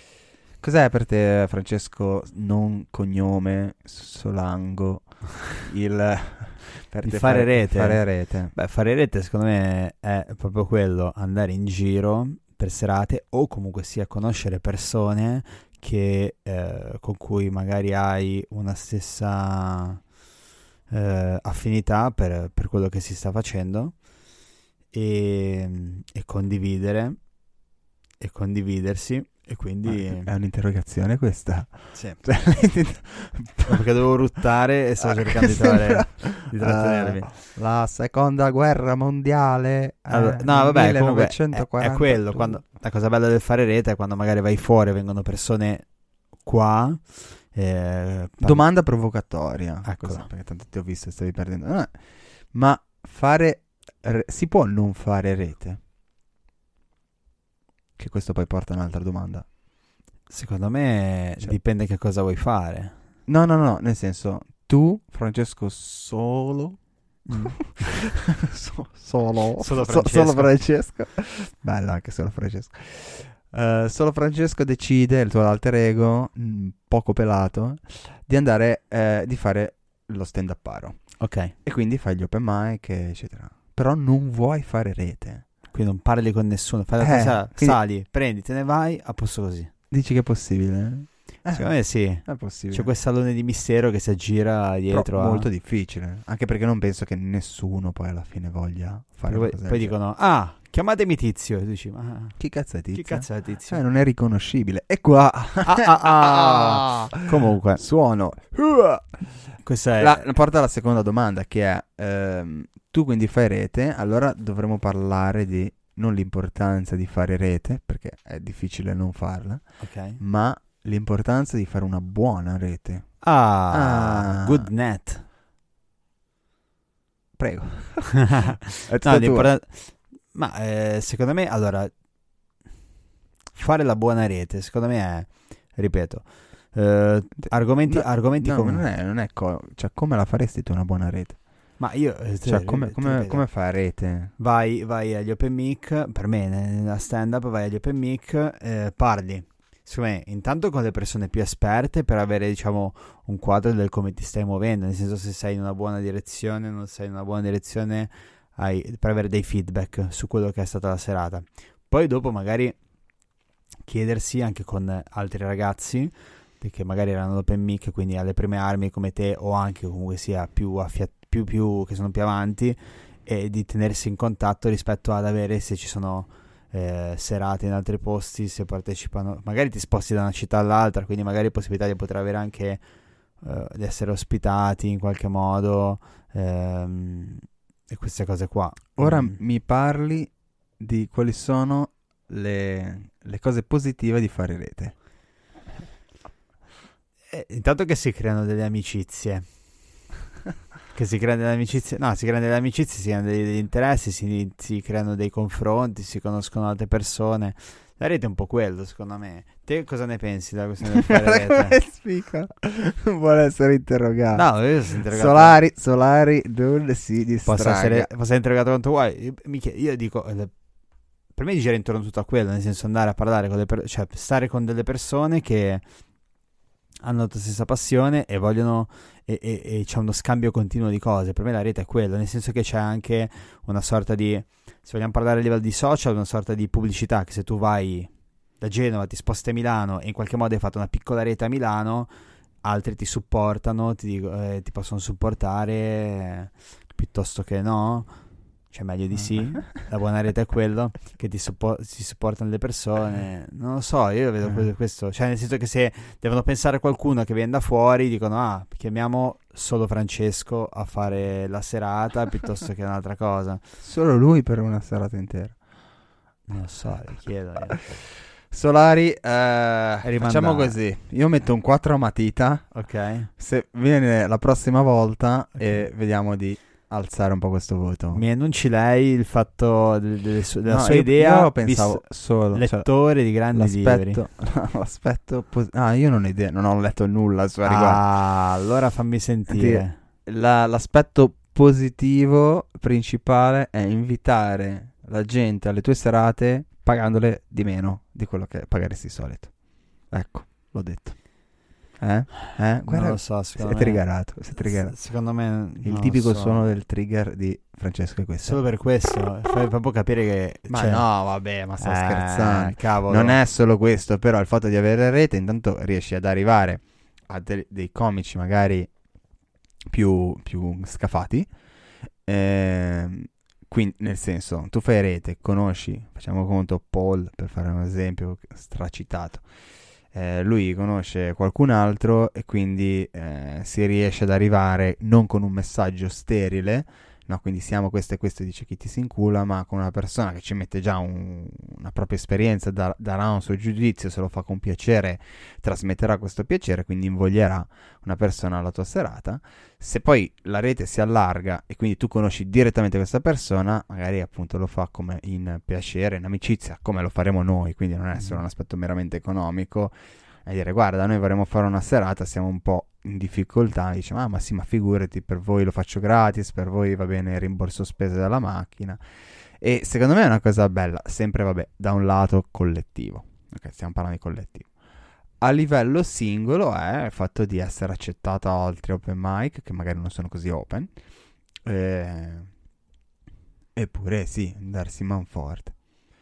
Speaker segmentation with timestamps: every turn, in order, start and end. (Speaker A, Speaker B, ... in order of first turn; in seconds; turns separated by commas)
Speaker A: 0.6-8.5, Speaker B: 7.0-20.0, Speaker B: 20.9-23.9, Speaker B: 24.9-27.2, Speaker B: 28.2-30.3, Speaker A: 29.9-33.8, Speaker B: 31.9-32.2, Speaker B: 33.6-37.3, Speaker A: 35.0-42.6, Speaker B: 40.1-45.9, Speaker B: 46.4-48.6, Speaker A: 48.4-52.0, Speaker B: 49.8-50.3, Speaker A: 52.5-55.8, Speaker A: 58.0-59.5, Speaker B: 60.3-62.9, Speaker A: 63.3-66.8, Speaker B: 67.3-67.9, Speaker A: 67.3-81.0, Speaker B: 69.6-70.5, Speaker B: 81.2-81.5, Speaker A: 81.6-85.5, Speaker B: 85.7-89.7, Speaker A: 87.0-87.8, Speaker A: 89.9-92.9, Speaker B: 91.5-95.5, Speaker A: 94.9-99.9, Speaker B: 99.3-102.4, Speaker A: 102.4-109.2, Speaker B: 102.9-103.8, Speaker B: 105.6-107.8, Speaker B: 109.6-110.2, Speaker A: 110.0-119.7, Speaker B: 119.8-120.2, Speaker A: 120.2-123.2, Speaker B: 123.2-125.2, Speaker A: 123.7-124.7, Speaker A: 127.4-129.5, Speaker B: 128.2-131.9, Speaker B: 133.5-138.8, Speaker A: 137.4-141.4, Speaker B: 141.8-143.4, Speaker A: 142.4-144.3, Speaker B: 144.4-162.8, Speaker B: 163.8-182.8, Speaker B: 183.4-189.4, Speaker A: 189.0-194.9, Speaker B: 197.3-199.4, Speaker B: 200.9-211.8, Speaker A: 210.9-214.5, Speaker B: 214.3-215.6, Speaker A: 215.1-218.1, Speaker B: 217.4-220.5, Speaker B: 221.3-225.8, Speaker B: 227.0-238.1, Speaker B: 238.6-242.1, Speaker B: 242.6-248.1, Speaker B: 248.7-263.6, Speaker A: 263.8-265.6, Speaker B: 266.5-267.9, Speaker A: 268.5-272.7, Speaker B: 270.0-270.8, Speaker B: 272.7-273.3, Speaker A: 273.4-278.2, Speaker B: 275.6-275.9, Speaker B: 278.1-284.2, Speaker A: 280.7-282.9, Speaker A: 283.5-288.0, Speaker B: 287.6-289.9, Speaker A: 289.5-299.5, Speaker A: 300.1-301.2, Speaker A: 302.0-304.9, Speaker B: 302.8-306.6, Speaker A: 305.8-308.6, Speaker B: 308.4-311.1, Speaker A: 310.7-318.9, Speaker B: 311.8-313.4, Speaker A: 319.9-321.5, Speaker A: 322.2-329.4, Speaker A: 330.1-369.0, Speaker A: 369.6-374.7, Speaker A: 375.4-380.9, Speaker A: 381.6-382.5, Speaker A: 383.7-385.7